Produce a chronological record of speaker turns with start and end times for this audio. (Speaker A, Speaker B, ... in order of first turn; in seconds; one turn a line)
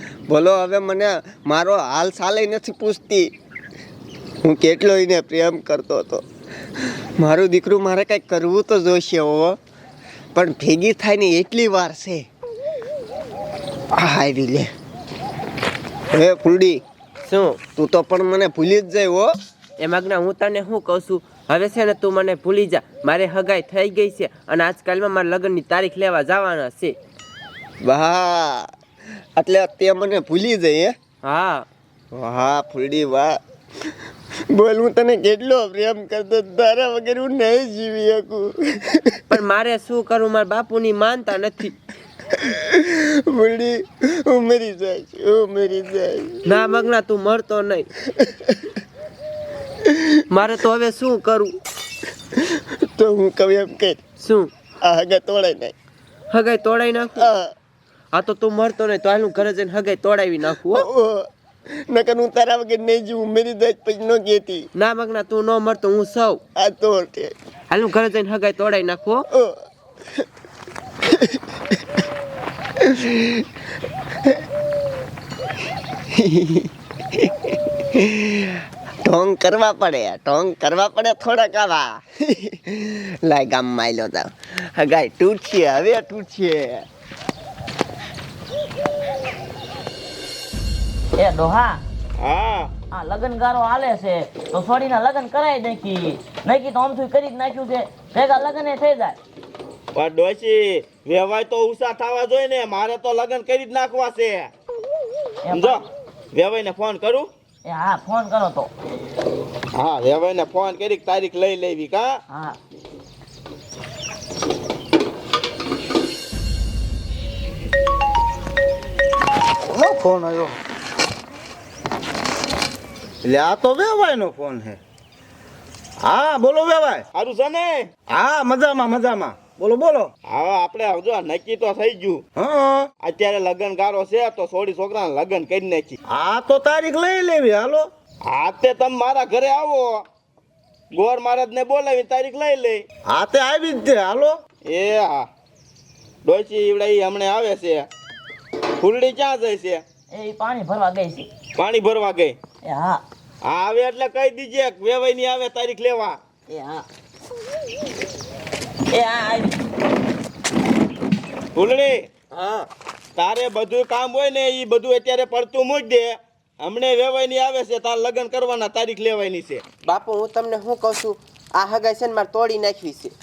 Speaker A: 0.3-3.3
Speaker A: 4.4-6.2
Speaker A: 7.2-9.6
Speaker A: 10.3-12.2
Speaker A: 13.9-14.7
Speaker A: 16.1-16.8
Speaker B: 17.3-17.6
Speaker A: 17.8-19.3
Speaker B: 19.8-27.0
Speaker A: 27.8-28.7
Speaker A: 29.4-31.0
Speaker B: 31.2-31.7
Speaker A: 32.1-33.4
Speaker A: 34.5-39.2
Speaker B: 39.3-41.8
Speaker A: 42.4-46.6
Speaker B: 46.5-47.9
Speaker B: 50.3-51.6
Speaker A: 53.0-54.0
Speaker B: 54.2-54.5
Speaker A: 54.8-55.8
Speaker B: 56.3-57.3
Speaker A: 57.2-57.5
Speaker B: 58.1-60.9
Speaker A: 60.6-61.3
Speaker A: 61.9-64.7
Speaker B: 64.8-66.4
Speaker A: 66.5-67.3
Speaker B: 67.7-69.2
Speaker A: 72.8-73.4
Speaker A: 76.2-76.7
Speaker A: 78.0-86.9
Speaker C: 91.2-91.8
Speaker D: 92.2-92.7
Speaker C: 92.9-99.2
Speaker D: 100.0-104.5
Speaker C: 105.5-105.8
Speaker D: 105.5-105.8
Speaker D: 106.3-107.3
Speaker C: 107.7-108.7
Speaker D: 109.7-112.2
Speaker C: 112.3-112.6
Speaker E: 119.7-120.5
Speaker E: 123.2-124.8
Speaker E: 126.0-127.0
Speaker D: 127.1-127.9
Speaker E: 128.2-130.1
Speaker D: 130.3-132.2
Speaker E: 132.4-132.9
Speaker D: 133.0-135.9
Speaker E: 136.1-137.9
Speaker D: 138.3-140.0
Speaker D: 140.9-142.8
Speaker E: 143.1-144.4
Speaker D: 144.7-145.3
Speaker D: 146.2-147.9
Speaker D: 148.8-149.8
Speaker C: 150.1-151.3
Speaker D: 151.6-152.4
Speaker C: 152.6-153.0
Speaker D: 153.4-156.2
Speaker C: 156.5-156.8
Speaker C: 158.9-159.6
Speaker D: 161.6-162.1
Speaker B: 162.3-162.7
Speaker D: 163.2-169.6
Speaker B: 169.8-173.1